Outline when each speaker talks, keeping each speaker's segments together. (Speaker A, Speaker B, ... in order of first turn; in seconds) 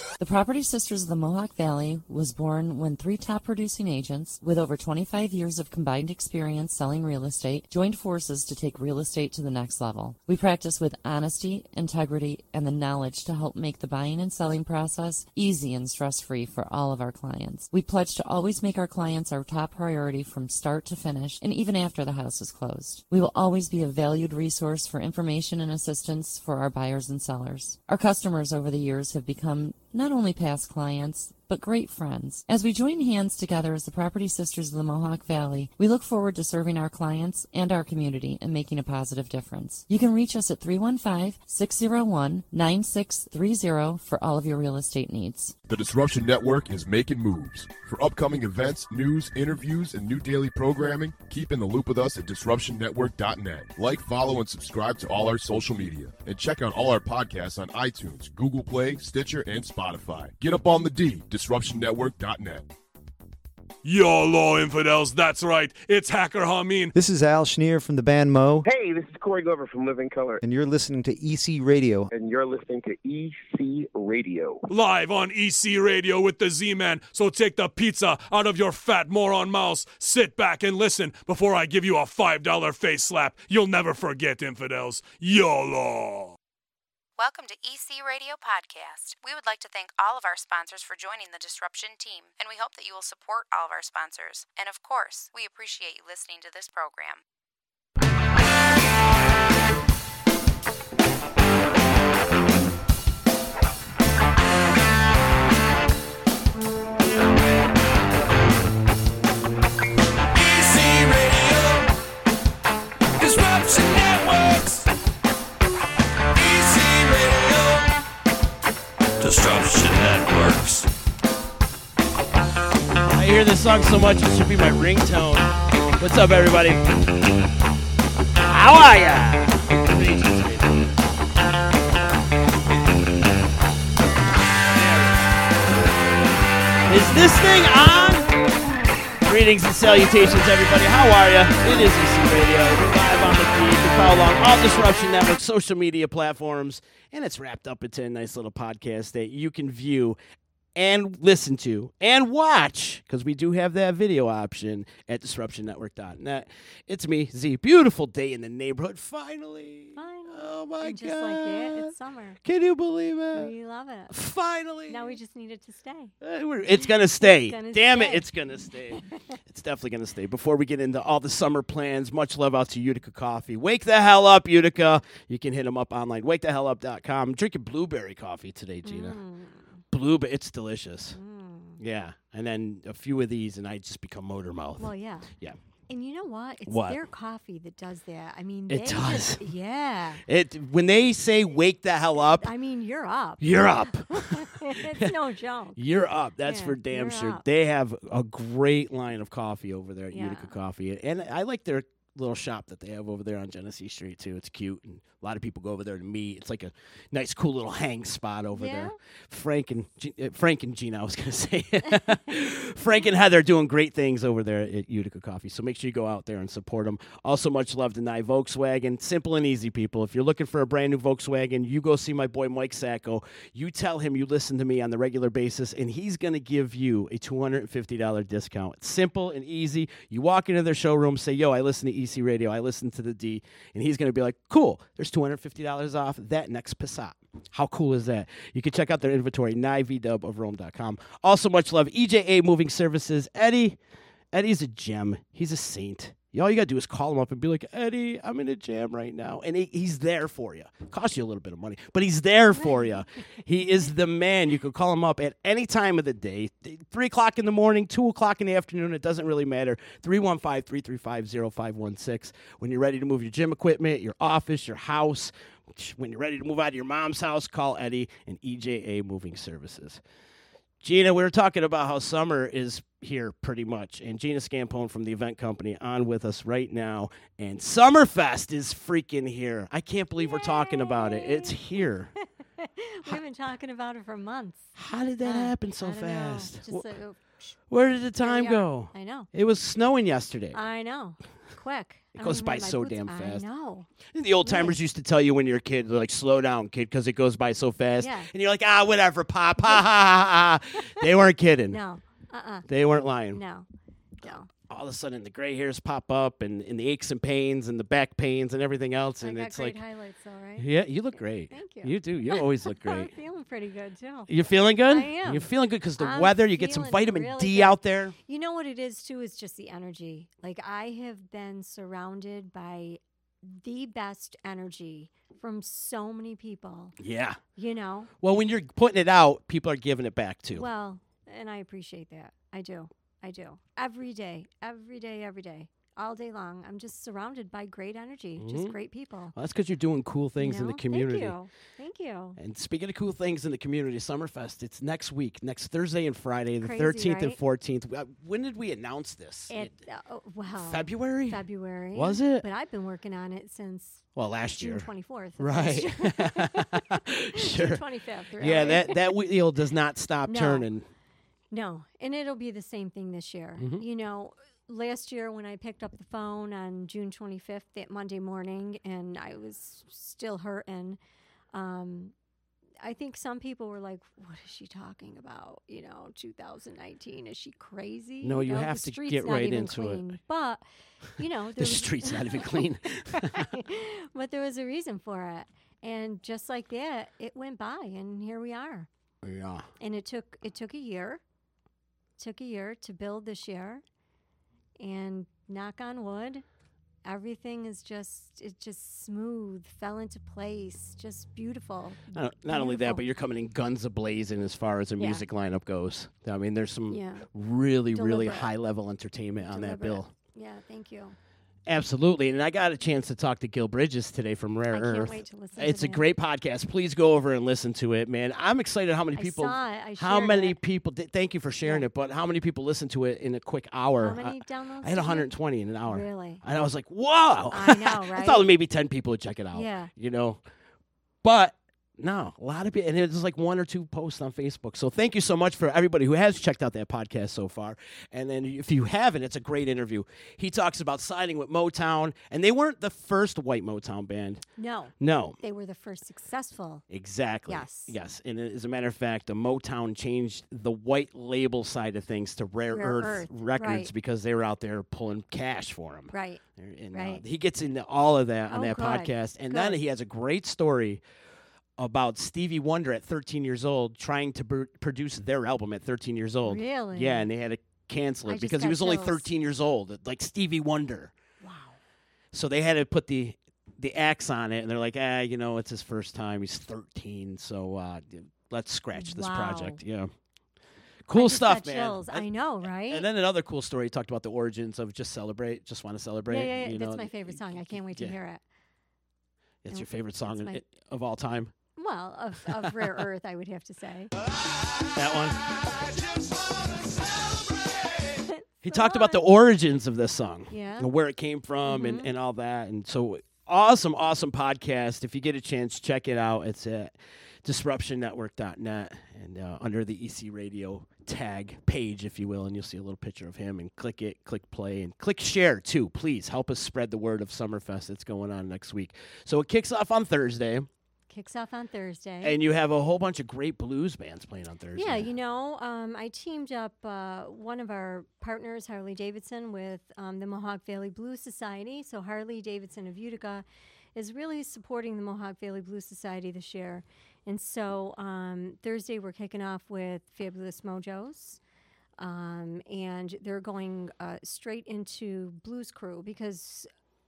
Speaker A: 0.2-45.5
Speaker B: 45.7-62.7
Speaker C: 63.8-66.9, 74.7-86.3
Speaker D: 66.9-68.7, 70.4-72.1
Speaker E: 68.6-70.4, 72.1-74.6
Speaker F: 87.2-97.2
Speaker G: 110.4-111.7, 113.2-114.6, 116.4-117.8, 119.2-120.8, 123.1-126.8, 128.4-130.8, 134.7-135.3, 136.9-138.3, 139.2-150.2, 150.7-161.9, 162.4-163.5, 164.1-165.2, 166.2-179.2, 179.9-181.2, 181.8-185.6, 186.7-187.0, 188.7-189.4, 190.2-192.5, 193.4-195.1, 195.8-243.8, 244.3-270.0, 270.8-282.1, 284.8-286.9, 287.7-290.6, 292.2-293.4, 294.1-301.8, 302.7-303.4, 304.7-309.8, 310.6-313.1, 314.3-318.1, 327.0-327.4, 328.2-330.6, 338.4-338.7, 339.3-341.4, 342.4-349.7, 350.6-351.4, 351.9-352.5, 354.1-357.8, 358.4-360.9, 363.6-363.8, 378.2-380.1, 381.5-383.4, 389.2-389.7, 402.1-410.1, 411.7-430.4, 431.2-444.4, 445.0-445.4, 446.9-461.0, 461.8-471.1, 472.3-480.1, 481.1-488.1, 489.6-491.5, 494.9-495.4, 498.6-520.7, 522.2-525.1
Speaker H: 159.9-162.4, 163.3-164.1, 164.9-166.1, 166.8-168.2, 178.8-179.8, 181.1-181.8, 184.8-185.3, 185.9-190.2, 192.4-195.8, 196.4-197.4, 200.1-200.5, 208.5-208.9, 252.6-253.0, 280.2-281.6, 282.6-284.7, 285.2-287.5, 288.2-289.3, 290.5-293.9, 294.4-294.8, 298.0-298.3, 301.7-302.7, 303.3-303.6, 304.2-304.5, 309.2-326.9, 327.6-328.1, 330.5-339.3, 340.4-342.4, 346.6-347.4, 349.5-359.0, 360.3-360.7, 361.5-371.0, 371.5-372.1, 372.8-380.6, 381.2-382.6, 383.1-388.9, 389.8-391.2, 392.2-393.8, 394.8-396.4, 397.0-403.0, 405.0-405.2, 406.9-407.3, 407.9-408.5, 409.4-411.1, 414.7-416.0, 419.1-420.6, 424.0-425.3, 425.9-426.4, 427.5-428.5, 429.5-429.9, 444.6-446.8, 447.5-447.9, 452.7-453.9, 456.1-456.4, 456.9-457.2, 458.5-459.8, 466.4-467.3, 468.3-469.3, 471.4-471.8, 478.9-479.8, 481.1-483.1, 486.3-488.4, 489.7-490.6, 491.8-494.1, 498.3-499.2, 500.5-500.9, 501.7-502.1, 521.1-522.4, 524.7-541.4, 542.0-546.7